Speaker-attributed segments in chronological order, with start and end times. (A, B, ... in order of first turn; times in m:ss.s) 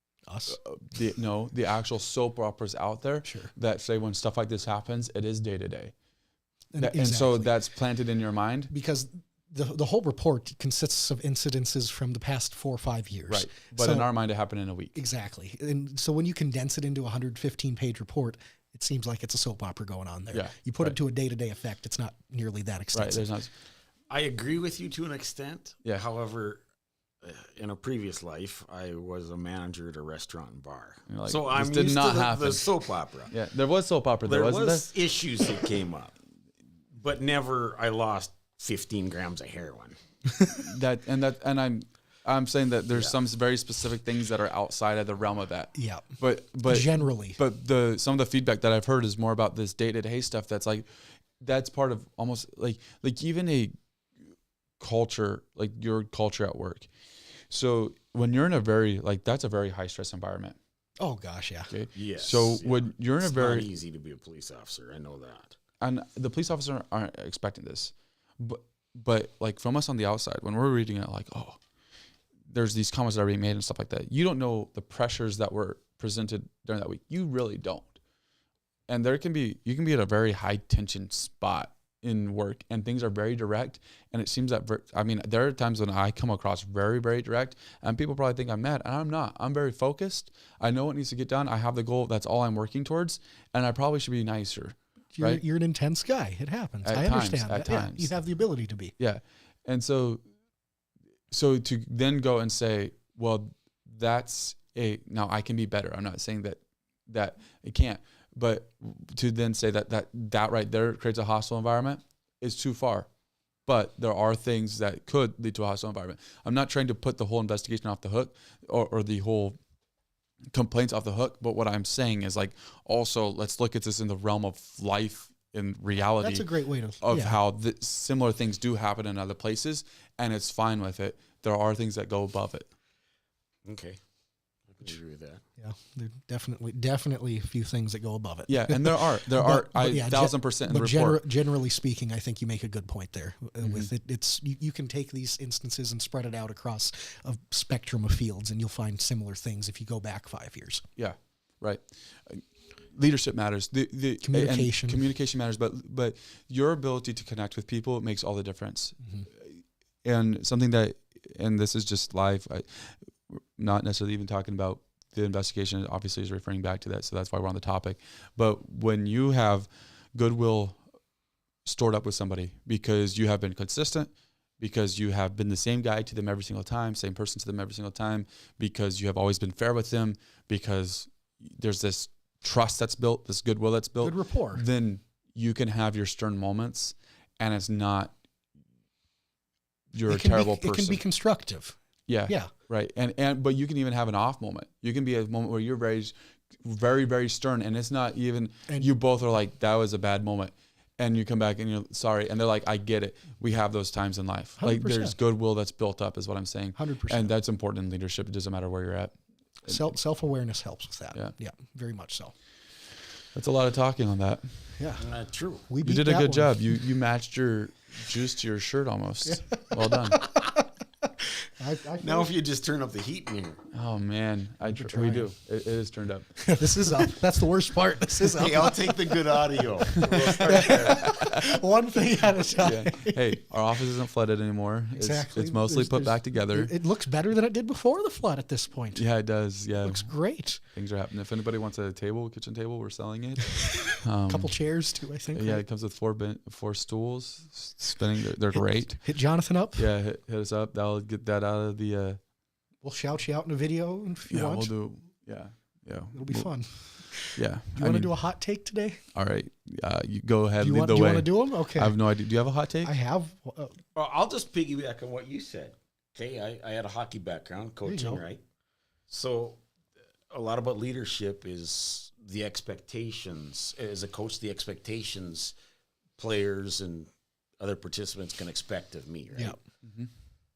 0:00.3-0:00.6 A
0:00.5-0:05.9 B
0:03.2-0:03.5 A
0:06.7-0:07.6 A
0:06.8-0:08.7 B
0:08.7-0:14.1 A
0:13.3-0:15.0 B
0:15.0-0:23.3 A
0:20.3-0:21.0 B
0:22.9-0:23.5 B
0:24.1-0:26.6 C
0:27.2-0:33.3 C
0:31.1-0:32.6 B
0:33.3-0:34.9 B
0:34.2-0:36.1 C
0:36.9-0:40.0 C
0:40.6-0:50.8 B
0:42.9-0:43.2 C
0:45.7-0:47.4 A
0:51.4-0:53.7 B
0:54.8-0:56.9 B
0:57.5-1:00.6 B
1:01.0-1:01.7 A
1:01.7-1:03.7 B
1:01.9-1:05.5 C
1:05.8-1:11.6 B
1:12.5-1:18.0 B
1:18.9-1:35.4 B
1:35.1-1:38.9 A
1:36.8-1:38.1 B
1:39.0-1:40.2 B
1:41.3-1:53.1 B
1:53.6-1:59.6 B
2:00.5-2:06.5 B
2:06.2-2:07.4 A
2:07.0-2:12.7 B
2:13.6-2:14.0 C
2:14.7-2:15.4 C
2:15.6-2:30.8 A
2:18.5-2:21.2 B
2:23.6-2:23.9 B
2:31.0-2:50.8 B
2:34.2-2:35.0 A
2:51.6-3:08.1 B
3:04.0-3:04.6 A
3:09.9-3:11.0 B
3:10.1-3:12.5 A
3:12.1-3:29.1 B
3:24.6-3:25.2 A
3:26.7-3:27.3 A
3:29.7-3:32.3 A
3:33.3-3:34.5 B
3:34.8-3:35.1 A
3:35.0-3:35.7 C
3:35.7-3:36.7 A
3:35.8-3:40.2 B
3:39.2-3:40.6 A
3:41.6-3:42.3 A
3:42.0-3:43.6 C
3:43.7-3:46.3 B
3:44.7-3:45.3 A
3:46.4-3:49.6 A
3:48.2-3:51.1 C
3:50.2-3:53.4 A
3:50.6-3:51.6 B
3:52.6-3:56.7 B
3:54.9-3:59.0 A
3:58.9-4:04.6 B
3:59.8-4:00.6 A
4:03.8-4:05.6 A
4:05.3-4:09.0 B
4:08.6-4:09.9 A
4:09.7-4:12.2 B
4:12.8-4:14.7 A
4:14.3-4:16.5 B
4:16.1-4:19.0 A
4:17.3-4:18.2 B
4:19.1-4:22.9 B
4:20.6-4:22.0 A
4:22.8-4:23.8 A
4:23.9-4:28.4 C
4:27.8-4:28.2 A
4:29.1-4:29.6 C
4:30.3-4:35.5 C
4:36.2-4:39.6 C
4:39.8-4:40.1 B